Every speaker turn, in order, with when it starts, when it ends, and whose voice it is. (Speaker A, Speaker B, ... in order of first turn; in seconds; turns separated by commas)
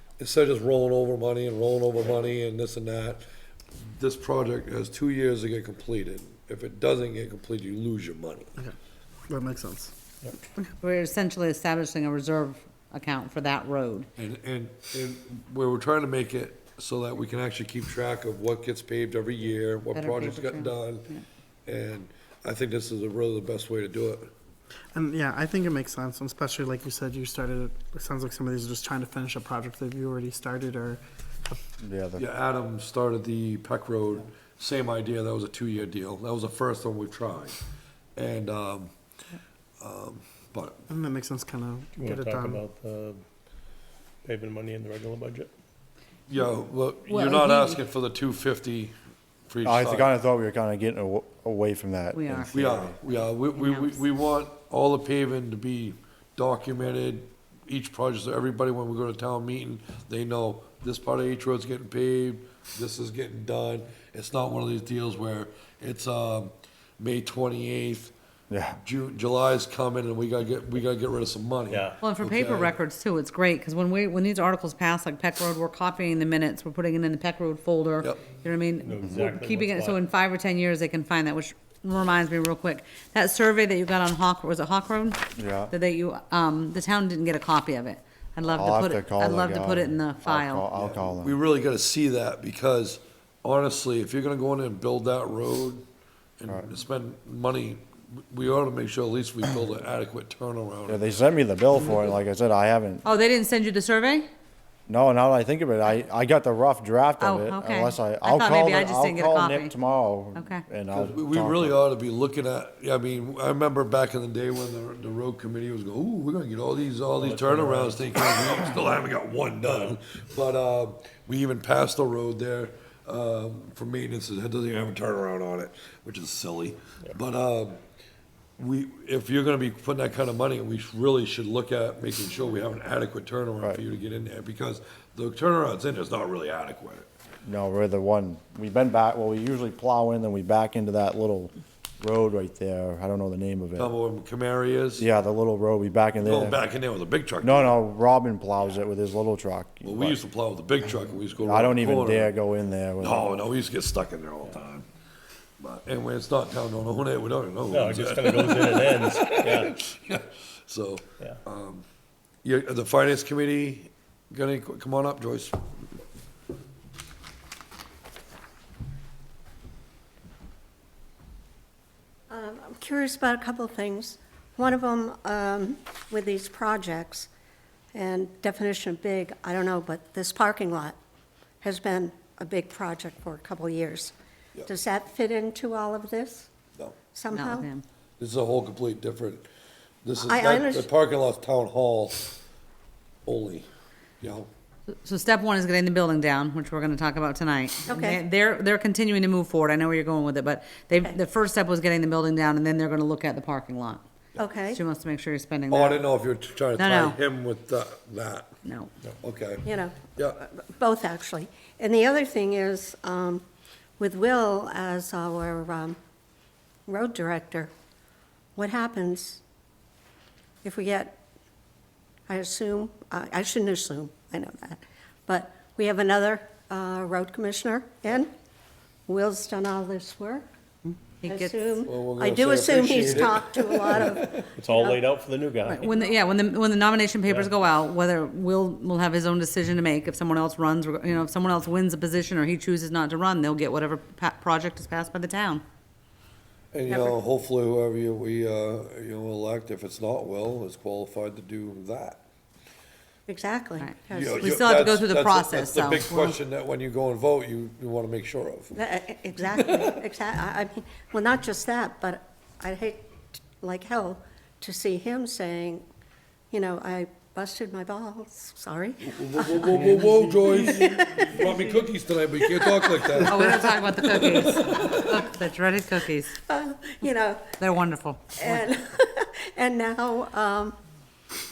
Speaker A: 0.2-3.2, Speaker A: 3.9-8.5, Speaker B: 9.3-9.9, Speaker C: 10.8-14.1, Speaker A: 14.2-21.1, Speaker C: 19.9-21.2, Speaker A: 21.6-24.3, Speaker B: 24.9-31.6, Speaker D: 31.8-32.2, Speaker A: 32.2-37.6, Speaker A: 38.1-38.9, Speaker A: 39.8-40.8, Speaker B: 40.9-42.6, Speaker E: 41.9-43.2, Speaker E: 44.2-45.5, Speaker A: 46.3-48.9, Speaker C: 47.1-47.8, Speaker A: 49.5-50.1, Speaker D: 49.6-53.0, Speaker C: 52.1-52.5, Speaker A: 52.5-68.1, Speaker C: 53.6-53.9, Speaker D: 68.5-68.8, Speaker A: 68.8-72.7, Speaker E: 71.7-72.0, Speaker C: 72.0-90.7, Speaker E: 78.8-80.0, Speaker D: 85.3-85.7, Speaker D: 88.4-91.4, Speaker A: 90.8-95.8, Speaker A: 96.4-101.0, Speaker D: 100.9-103.0, Speaker C: 103.0-104.3, Speaker D: 104.9-111.8, Speaker C: 107.2-109.8, Speaker C: 110.3-110.6, Speaker A: 110.9-127.8, Speaker E: 117.2-117.9, Speaker A: 128.6-137.1, Speaker D: 137.4-143.9, Speaker A: 143.8-145.1, Speaker D: 145.0-146.6, Speaker A: 146.2-147.8, Speaker D: 147.4-150.2, Speaker A: 149.8-152.3, Speaker D: 151.4-153.3, Speaker A: 153.0-154.8, Speaker A: 155.6-161.8, Speaker E: 157.7-159.7, Speaker A: 162.4-165.6, Speaker F: 172.3-177.3, Speaker F: 177.9-180.9, Speaker F: 181.6-184.1, Speaker F: 184.7-186.5, Speaker F: 187.1-187.7, Speaker C: 187.3-187.8, Speaker A: 188.2-189.5, Speaker A: 190.0-192.3, Speaker F: 190.2-190.9, Speaker A: 193.2-193.7, Speaker A: 194.2-194.5, Speaker C: 195.0-204.0, Speaker F: 197.9-198.2, Speaker F: 204.4-204.8, Speaker C: 204.6-206.1, Speaker A: 205.7-208.5, Speaker C: 206.8-207.2, Speaker C: 208.6-208.9, Speaker A: 209.2-210.4, Speaker F: 209.6-213.4, Speaker F: 214.0-216.0, Speaker F: 216.9-217.7, Speaker F: 218.6-219.4, Speaker F: 220.6-221.2, Speaker F: 222.3-228.3, Speaker F: 229.1-235.1, Speaker C: 231.2-231.7, Speaker A: 231.8-234.5, Speaker E: 234.4-235.9, Speaker C: 235.7-245.6, Speaker A: 246.7-252.2, Speaker F: 246.9-247.2, Speaker F: 253.3-254.5, Speaker C: 253.8-256.4, Speaker A: 254.1-258.7, Speaker F: 258.7-265.8, Speaker F: 266.5-271.7, Speaker A: 269.0-275.2, Speaker E: 269.7-270.9, Speaker F: 272.4-273.7, Speaker C: 273.2-276.4, Speaker F: 276.4-277.6, Speaker C: 277.6-278.7, Speaker F: 278.4-280.8